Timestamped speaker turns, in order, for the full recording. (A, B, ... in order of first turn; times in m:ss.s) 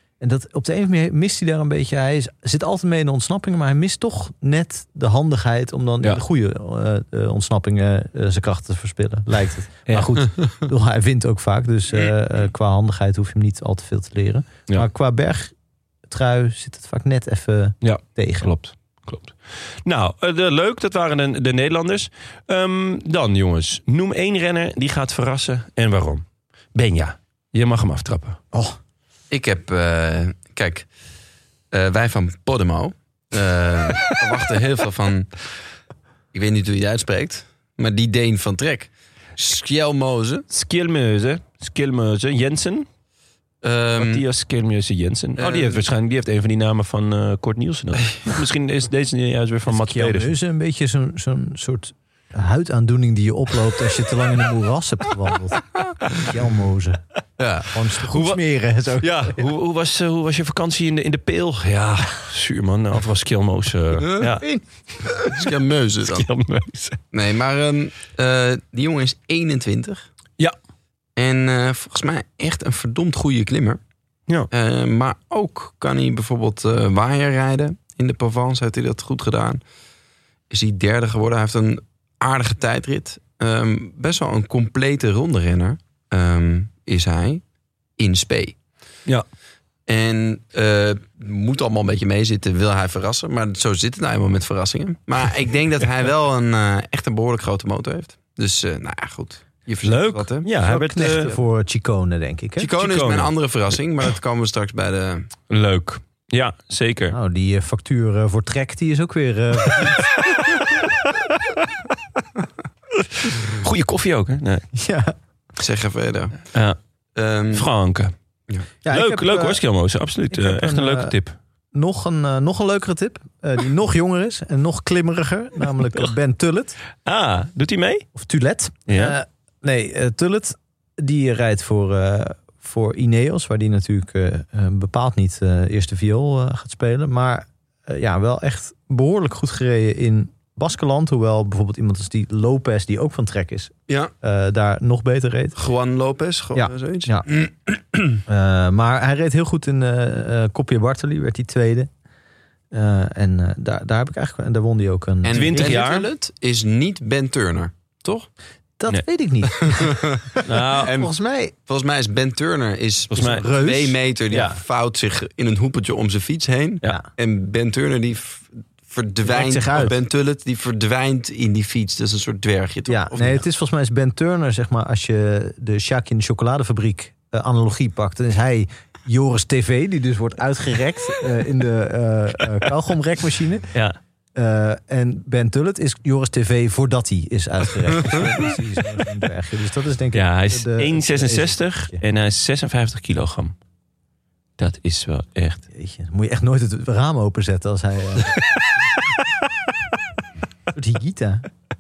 0:00.2-0:15.5 A
0:09.9-0:10.2 B
0:16.1-0:18.5 A
0:17.8-0:28.4 B
0:29.3-0:30.9 C
0:31.7-0:35.3 C
0:36.3-0:40.5 C
0:40.5-0:42.9 B
0:43.6-0:44.2 C
0:44.0-0:50.3 B
0:45.4-0:45.8 C
0:49.7-0:57.0 A
0:57.4-0:57.7 C
0:57.7-0:59.4 A
0:58.1-0:58.4 B
0:59.0-1:05.3 B
1:04.4-1:05.4 A
1:05.3-1:06.3 C
1:06.0-1:07.0 B
1:07.1-1:10.1 C
1:11.2-1:13.8 C
1:14.5-1:19.6 C
1:20.5-1:27.4 C
1:28.0-1:28.6 C
1:29.9-1:40.5 C
1:39.8-1:41.3 B
1:40.6-1:42.7 A
1:42.6-1:45.3 C
1:42.8-1:43.3 B
1:45.5-1:47.2 B
1:47.1-1:50.2 A
1:53.0-1:54.7 B
1:54.7-1:55.2 A
1:55.6-1:56.4 C
1:56.5-1:56.8 B
1:57.2-1:57.7 C
1:57.5-1:58.1 B
1:58.8-1:59.6 A
1:58.9-2:01.4 B
2:00.3-2:01.1 A
2:01.7-2:06.8 A
2:07.0-2:08.1 B
2:08.2-2:25.6 A
2:08.9-2:09.2 B
2:25.6-2:28.2 C
2:26.6-2:27.3 A
2:28.3-2:31.9 A
2:32.7-2:35.8 A
2:35.2-2:38.3 C
2:35.3-2:36.1 B
2:38.8-2:41.5 A
2:39.7-2:41.1 C
2:40.4-2:41.0 B
2:41.7-2:53.4 C
2:43.1-2:43.5 B
2:43.1-2:44.0 A
2:44.3-2:44.6 B
2:49.2-2:49.9 A
2:52.9-3:03.7 A
3:04.4-3:12.0 A
3:10.1-3:13.5 B
3:14.6-3:15.6 B
3:15.7-3:18.6 A
3:18.4-3:19.4 B
3:20.7-3:21.4 A